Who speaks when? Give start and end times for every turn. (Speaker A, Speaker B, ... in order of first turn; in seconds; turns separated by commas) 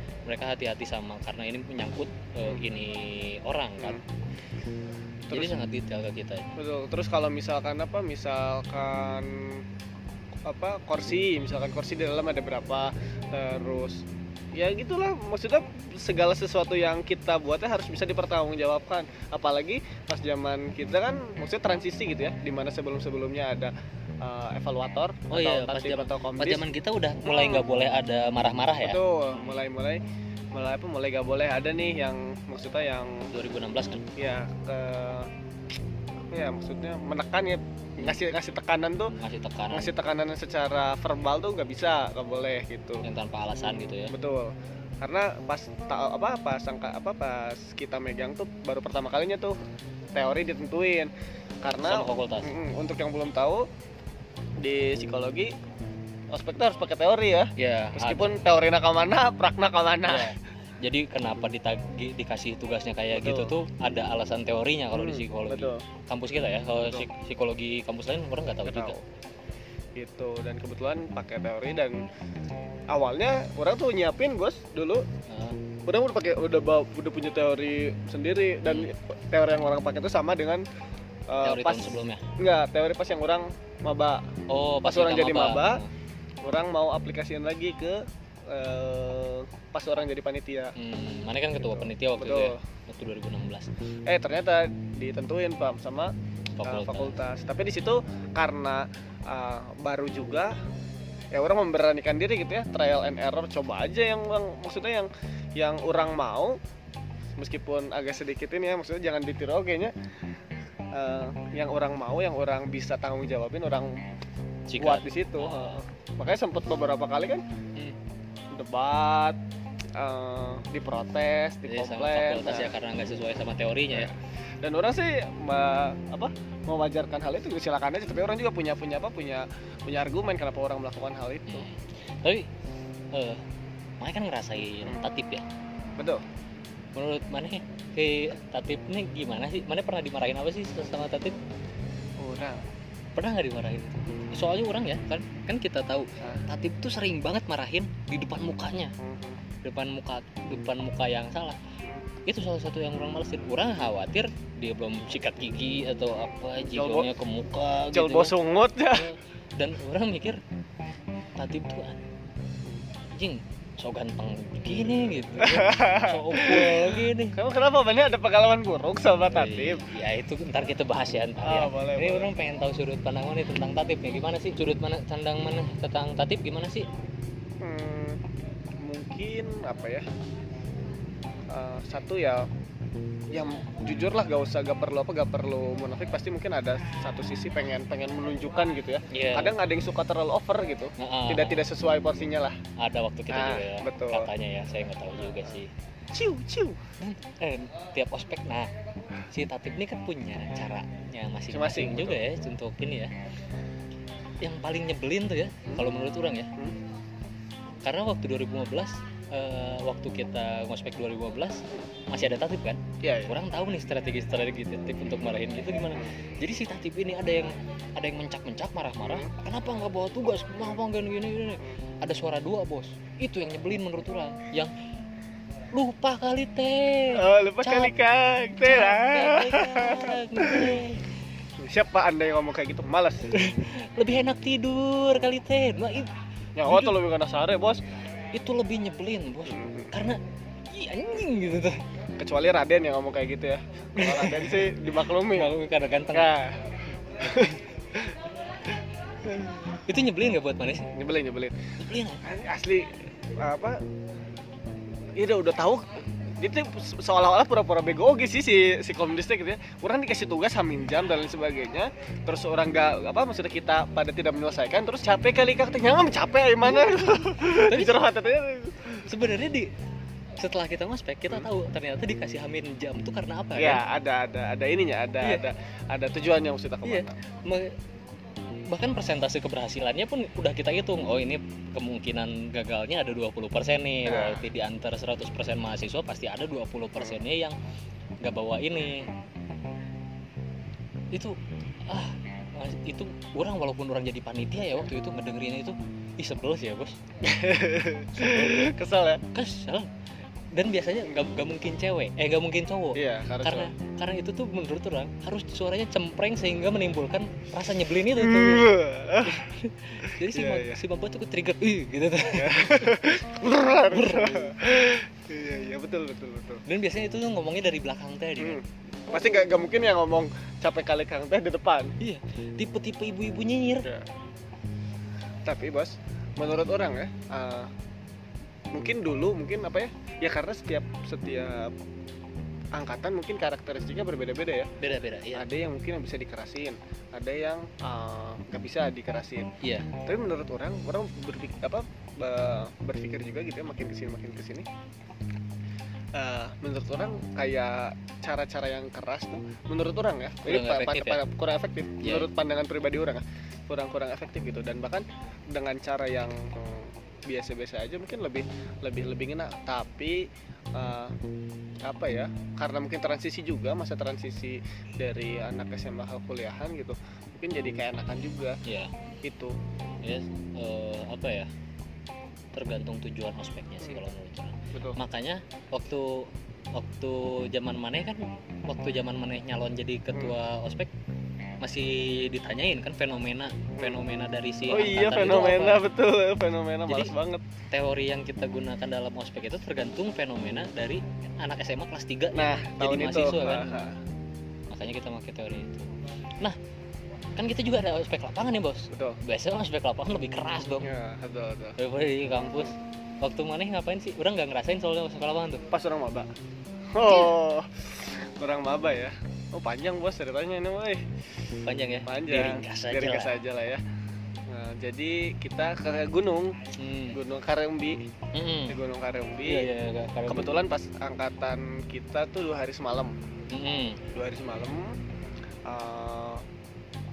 Speaker A: 0.2-4.0, Speaker B: 5.3-5.6, Speaker A: 5.3-6.5, Speaker B: 6.5-9.6, Speaker B: 10.4-26.7, Speaker A: 25.3-29.6, Speaker B: 27.2-27.6, Speaker B: 28.8-30.0, Speaker B: 30.5-33.3, Speaker A: 33.3-34.0, Speaker B: 34.1-35.3, Speaker B: 36.3-39.1, Speaker A: 39.1-40.0, Speaker B: 39.7-43.0, Speaker A: 43.0-44.1, Speaker B: 43.8-49.6, Speaker B: 50.1-51.1, Speaker B: 51.6-53.7, Speaker A: 51.8-52.5, Speaker B: 54.6-55.5, Speaker B: 56.3-60.3, Speaker A: 57.6-58.4, Speaker A: 60.0-69.0, Speaker B: 63.1-63.5, Speaker B: 64.9-65.8, Speaker B: 66.8-67.1, Speaker B: 68.7-69.0, Speaker B: 70.0-72.0, Speaker B: 72.9-75.0, Speaker A: 75.3-75.6, Speaker B: 75.8-80.6, Speaker B: 81.3-84.3, Speaker A: 81.4-82.2, Speaker A: 84.5-85.9, Speaker B: 84.8-85.8, Speaker B: 86.4-90.7, Speaker A: 90.8-93.7, Speaker B: 91.6-92.6, Speaker B: 94.0-100.5, Speaker A: 96.6-97.2, Speaker B: 101.3-106.6, Speaker B: 107.4-109.9, Speaker B: 110.9-114.0, Speaker A: 114.7-115.8, Speaker B: 114.8-117.4, Speaker B: 118.5-119.4, Speaker B: 119.9-122.7, Speaker A: 121.7-124.1, Speaker B: 123.9-131.7, Speaker A: 131.5-132.5, Speaker A: 133.1-133.4, Speaker A: 134.0-135.4, Speaker B: 136.0-136.2, Speaker A: 136.9-141.3, Speaker B: 142.2-142.6, Speaker A: 143.2-148.9, Speaker B: 149.0-149.4, Speaker A: 149.6-151.6, Speaker A: 152.2-158.3, Speaker B: 156.7-157.1, Speaker B: 157.9-159.1, Speaker A: 158.9-160.4, Speaker A: 161.3-162.0, Speaker A: 163.1-167.4, Speaker B: 164.8-169.8, Speaker A: 169.3-176.8, Speaker B: 171.4-172.3, Speaker B: 177.6-178.2, Speaker B: 178.8-180.1, Speaker B: 181.5-182.5, Speaker B: 183.3-192.6, Speaker A: 189.1-189.6, Speaker A: 191.0-191.6, Speaker A: 192.8-195.7, Speaker B: 193.3-194.3, Speaker B: 196.1-196.8, Speaker A: 197.0-198.7, Speaker A: 199.3-203.1, Speaker B: 201.5-202.2, Speaker A: 204.4-206.5, Speaker A: 207.8-224.7, Speaker B: 213.0-213.3, Speaker A: 225.7-227.9, Speaker B: 227.1-230.8, Speaker A: 228.6-231.1, Speaker B: 231.6-233.4, Speaker A: 233.3-236.1, Speaker B: 236.6-237.8, Speaker A: 236.6-236.9, Speaker A: 238.3-241.8, Speaker B: 239.5-239.9, Speaker B: 242.2-245.5, Speaker A: 244.0-246.3, Speaker B: 246.1-246.6, Speaker B: 247.1-248.2, Speaker A: 249.3-250.9, Speaker B: 250.9-251.6, Speaker A: 251.8-252.2, Speaker B: 252.2-253.8, Speaker B: 255.2-269.1, Speaker A: 266.7-268.0, Speaker A: 269.0-269.7, Speaker A: 270.4-273.8, Speaker B: 273.6-277.2, Speaker A: 275.2-275.4, Speaker A: 276.8-277.7, Speaker A: 278.7-287.6, Speaker B: 284.0-284.4, Speaker A: 288.2-289.1, Speaker A: 291.9-297.0, Speaker B: 297.2-299.2, Speaker A: 298.1-298.8, Speaker A: 299.3-299.9, Speaker A: 300.5-313.2, Speaker B: 302.9-303.7, Speaker B: 308.1-309.5, Speaker B: 310.0-310.8, Speaker B: 312.3-316.6, Speaker A: 313.9-314.6, Speaker A: 316.6-318.6, Speaker B: 318.4-321.9, Speaker A: 322.0-323.9, Speaker B: 323.8-324.1, Speaker B: 325.4-327.7, Speaker B: 328.7-331.7, Speaker B: 332.7-334.7, Speaker A: 334.8-335.4, Speaker B: 335.3-344.7, Speaker A: 339.6-339.9, Speaker B: 346.1-361.1, Speaker A: 350.4-351.2, Speaker A: 352.0-352.3, Speaker B: 361.8-368.6, Speaker A: 368.6-368.9, Speaker B: 369.2-369.6, Speaker A: 370.0-371.5, Speaker A: 372.5-380.9, Speaker A: 381.6-385.8, Speaker B: 384.7-387.4, Speaker A: 386.9-387.1, Speaker A: 387.7-393.9, Speaker B: 392.3-394.0, Speaker A: 394.7-396.6, Speaker A: 397.4-400.9, Speaker B: 398.9-399.2, Speaker B: 400.8-401.8, Speaker A: 401.8-405.6, Speaker B: 405.7-406.3, Speaker B: 406.9-411.0, Speaker A: 411.6-413.3, Speaker B: 412.0-413.8, Speaker B: 414.5-416.6, Speaker A: 416.8-417.2, Speaker B: 417.1-418.0, Speaker A: 418.3-418.8, Speaker B: 418.7-419.7, Speaker A: 419.4-420.5, Speaker B: 420.3-423.1, Speaker A: 423.5-424.0, Speaker B: 424.1-425.0, Speaker B: 425.6-426.4